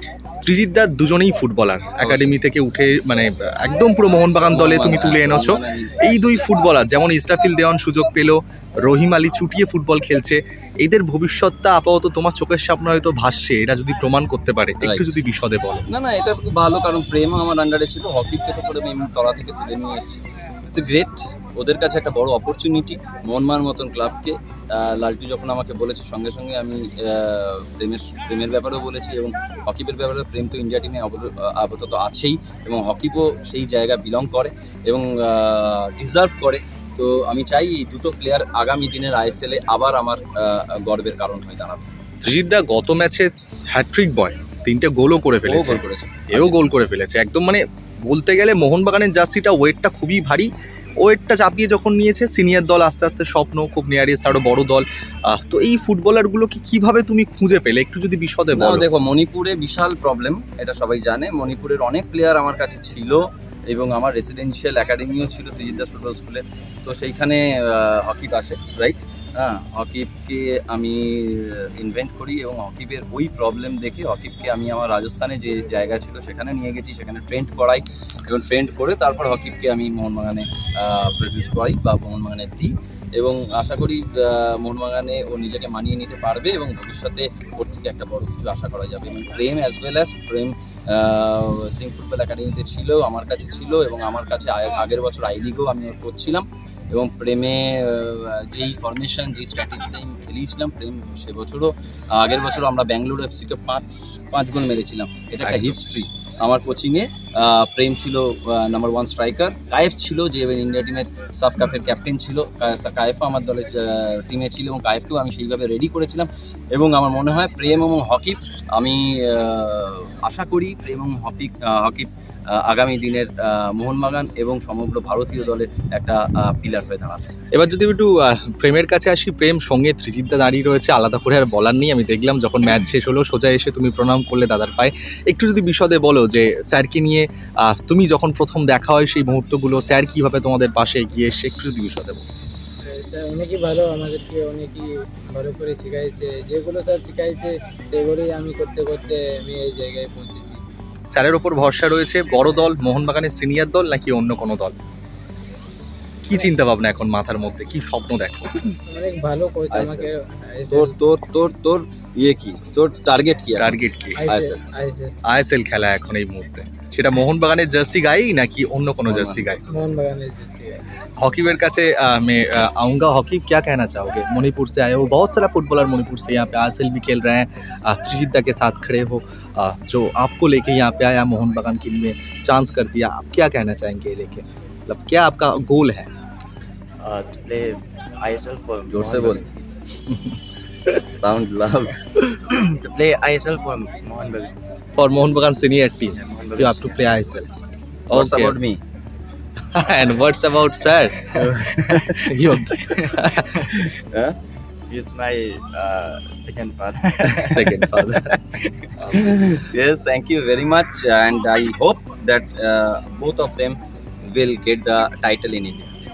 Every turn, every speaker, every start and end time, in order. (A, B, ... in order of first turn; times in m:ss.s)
0:00.4-0:15.8 A
0:02.0-0:02.4 B
0:04.5-0:06.5 B
0:14.8-0:15.2 B
0:15.9-0:41.8 B
0:42.2-0:50.5 A
0:45.4-0:46.6 B
0:51.0-0:58.8 A
0:58.5-2:07.3 B
1:45.4-1:45.8 A
2:07.5-2:22.2 A
2:22.9-2:30.6 C
2:31.1-2:34.7 A
2:36.2-2:38.5 A
2:38.8-2:41.0 C
2:39.7-2:40.1 B
2:40.7-2:44.6 B
2:43.6-2:44.2 A
2:44.1-2:45.1 C
2:45.3-2:49.7 A
2:49.1-2:49.7 B
2:49.7-2:50.8 C
2:51.2-3:06.1 A
3:07.0-3:09.4 D
3:08.9-3:09.4 B
3:11.0-3:12.0 B
3:12.7-3:14.5 D
3:15.0-3:17.5 A
3:16.2-3:16.9 D
3:18.1-3:18.6 A
3:18.1-3:18.8 B
3:19.7-3:23.9 A
3:21.3-3:22.2 B
3:24.9-3:27.8 D
3:27.4-3:28.3 A
3:29.1-3:35.9 B